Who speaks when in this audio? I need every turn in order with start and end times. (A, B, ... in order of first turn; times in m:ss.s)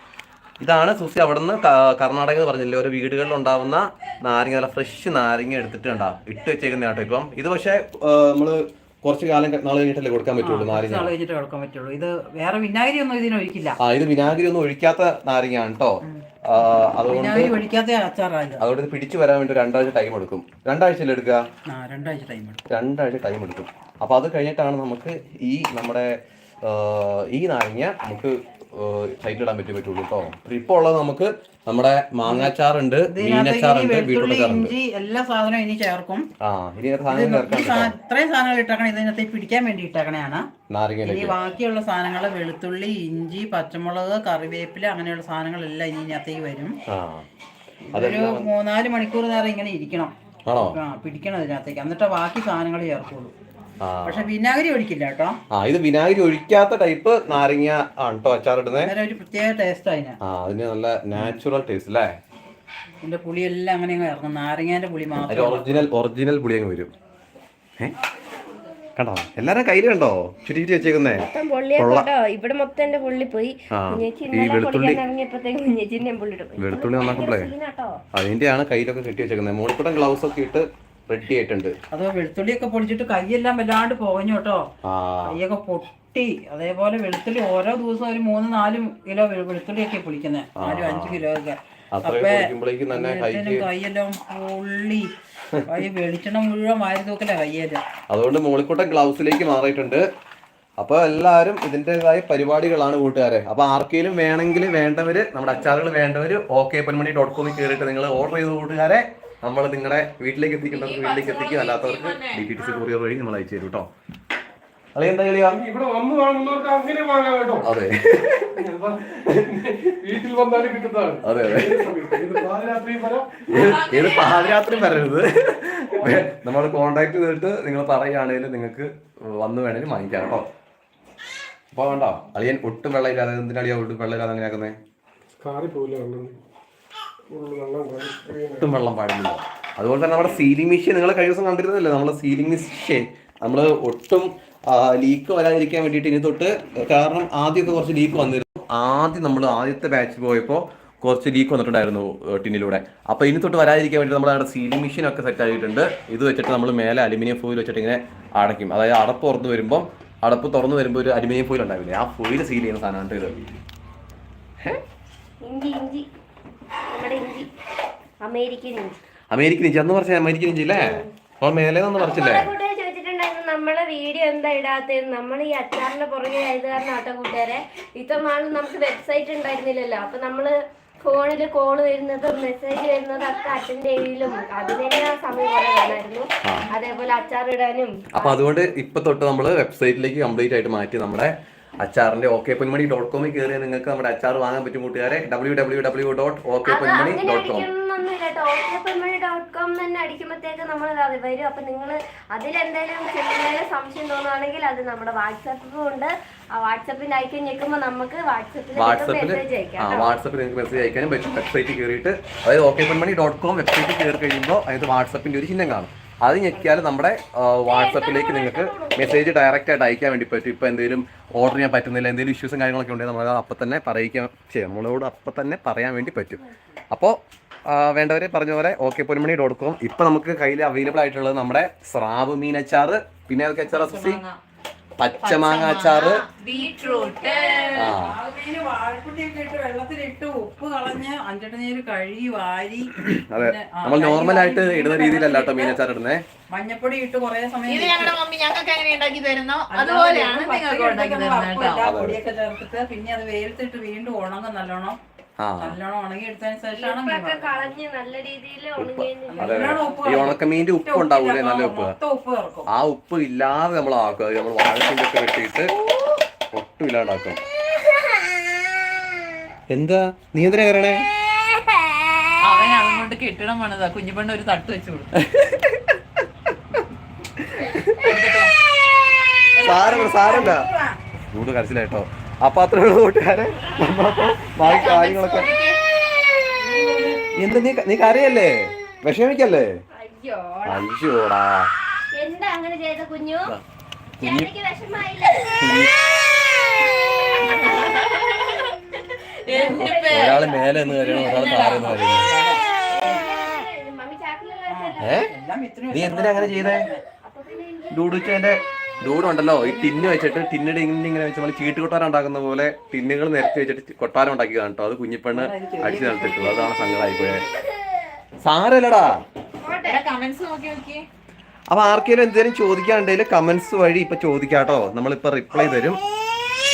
0:00.6-0:11.1 A
0:10.4-0:13.8 B
0:13.8-0:17.6 A
0:17.1-0:18.6 B
0:18.6-0:21.4 A
0:21.7-0:22.6 B
0:22.7-0:34.8 A
0:32.3-0:32.5 B
0:33.1-0:36.3 B
0:36.4-0:37.9 A
0:37.1-0:40.5 B
0:40.7-0:41.4 A
0:41.1-0:46.8 B
0:46.9-0:47.3 A
0:47.8-0:53.3 B
0:47.9-0:48.5 A
0:50.5-0:50.8 A
0:53.8-0:54.3 A
0:54.0-0:55.4 B
0:55.5-0:58.9 A
0:58.8-1:00.2 B
1:00.2-1:02.2 A
1:03.0-1:05.9 B
1:05.3-1:06.9 A
1:09.0-1:12.1 A
1:11.1-1:18.0 C
1:13.7-1:15.0 A
1:16.6-1:17.5 A
1:18.1-1:21.8 A
1:21.9-1:24.7 B
1:24.8-1:25.4 A
1:25.3-1:35.1 B
1:30.6-1:31.2 A
1:31.9-1:33.7 A
1:35.7-1:37.8 B
1:38.1-1:40.0 A
1:40.8-1:53.9 A
1:50.7-1:52.9 D
1:55.0-1:55.6 A
1:55.5-1:57.7 E
1:57.6-1:58.6 A
1:58.5-2:03.4 E
2:01.2-2:01.9 A
2:03.5-2:10.5 A
2:03.5-2:05.0 D
2:11.7-2:14.8 A
2:15.4-2:16.4 E
2:17.3-2:18.7 E
2:18.6-2:43.4 A
2:45.4-2:46.1 C
2:46.9-2:47.5 C
2:48.2-2:49.0 C
2:49.3-2:52.5 A
2:50.7-2:51.1 C
2:52.0-3:08.4 C
3:06.4-3:06.7 A
3:08.1-3:17.7 A
3:16.7-3:30.1 C
3:28.8-3:54.2 A
3:37.7-3:39.3 C
3:53.7-3:54.4 D
3:55.0-3:56.2 A
3:55.2-3:57.9 D
3:56.5-4:05.8 B
3:57.8-3:58.1 A
4:03.0-4:06.2 A
4:06.5-4:08.1 B
4:07.7-4:11.8 D
4:09.7-4:15.0 B
4:11.8-4:12.2 A
4:15.4-4:15.8 A
4:15.6-4:17.5 B
4:16.8-4:19.9 C
4:18.8-4:22.0 A
4:19.3-4:22.7 B
4:22.7-4:25.7 A
4:26.5-4:27.4 A
4:29.7-4:31.1 A
4:32.4-4:35.1 D
4:35.2-4:36.2 A
4:37.4-4:38.2 A
4:38.0-4:38.5 D
4:39.6-4:41.0 B
4:39.6-4:40.7 A
4:41.3-4:45.5 A
4:43.6-4:43.9 C
4:44.6-4:45.8 D
4:46.6-4:47.2 B
4:47.4-4:49.8 A
4:50.0-4:50.8 C
4:50.7-4:51.7 A
4:52.1-4:53.5 C
4:54.2-4:55.8 C
4:54.2-4:54.5 A
4:55.6-4:55.9 A
4:57.2-5:01.4 C
4:59.4-5:02.1 D
4:59.7-5:02.3 A
5:01.9-5:02.6 B
5:02.9-5:05.3 C
5:04.7-5:07.0 B
5:05.0-5:05.3 A
5:05.9-5:06.9 A
5:06.7-5:08.2 C
5:07.9-5:17.4 A
5:15.3-5:17.3 B
5:18.4-5:19.2 A
5:19.6-5:20.0 C
5:19.8-5:21.0 D
5:21.7-5:26.0 A